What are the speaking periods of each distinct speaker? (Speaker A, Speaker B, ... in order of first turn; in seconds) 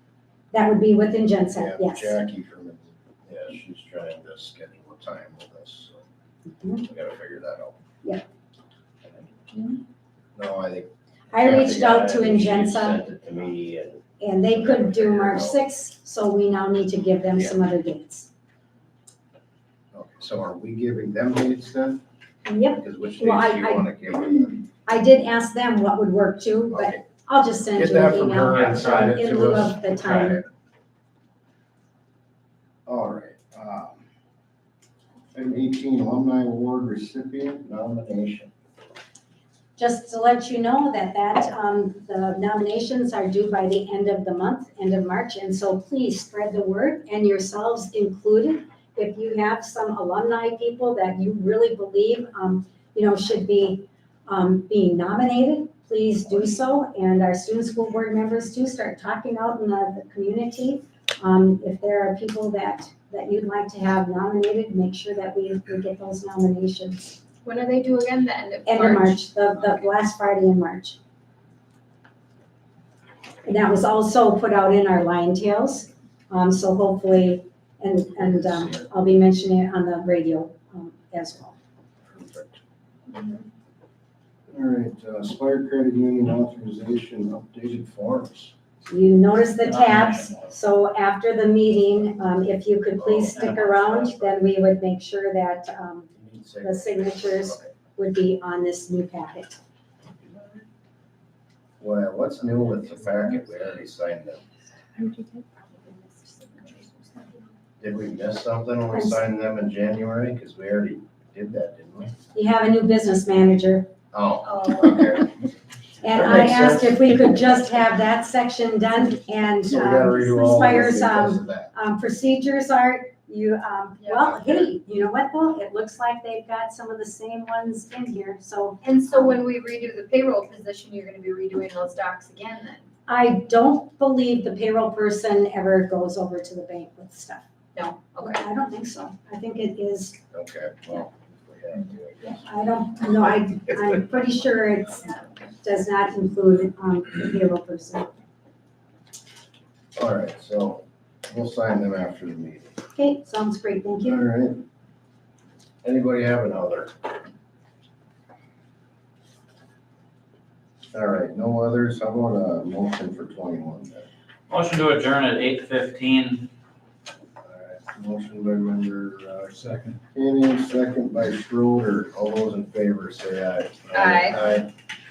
Speaker A: 0.5-2.2, 11.3-13.0, 14.2-18.3, 22.4-24.0, 24.8-30.4, 39.8-67.2, 68.7-71.0, 73.4-81.5, 88.9-96.1, 96.6-99.6, 108.9-109.2, 112.3-113.9, 116.0-129.4, 133.1-137.4, 138.2-140.2, 142.2-148.1, 152.9-154.3
Speaker B: 1.5-6.0, 6.8-7.8, 10.3-15.6, 17.3-17.6, 19.9-22.0, 22.7-24.6, 26.7-27.0, 27.8-30.4, 32.9-34.0, 35.3-38.5, 78.3-78.8, 82.1-82.6, 84.5-88.5, 93.0-93.2, 96.1-97.7, 100.2-100.6, 101.8-104.4, 107.8-112.1, 114.1-115.3, 116.1-117.2, 119.6-121.7, 140.3-142.5, 149.9-152.7, 154.0-154.7, 155.8-156.9, 160.9-164.1, 167.4-174.7
Speaker C: 28.7-29.1, 30.0-30.3, 89.6-90.3, 93.1-94.3, 164.5-166.5
Speaker D: 67.4-69.2, 105.0-107.5, 114.4-115.2, 124.0-124.6, 128.8-132.9, 137.7-138.4, 173.9-174.4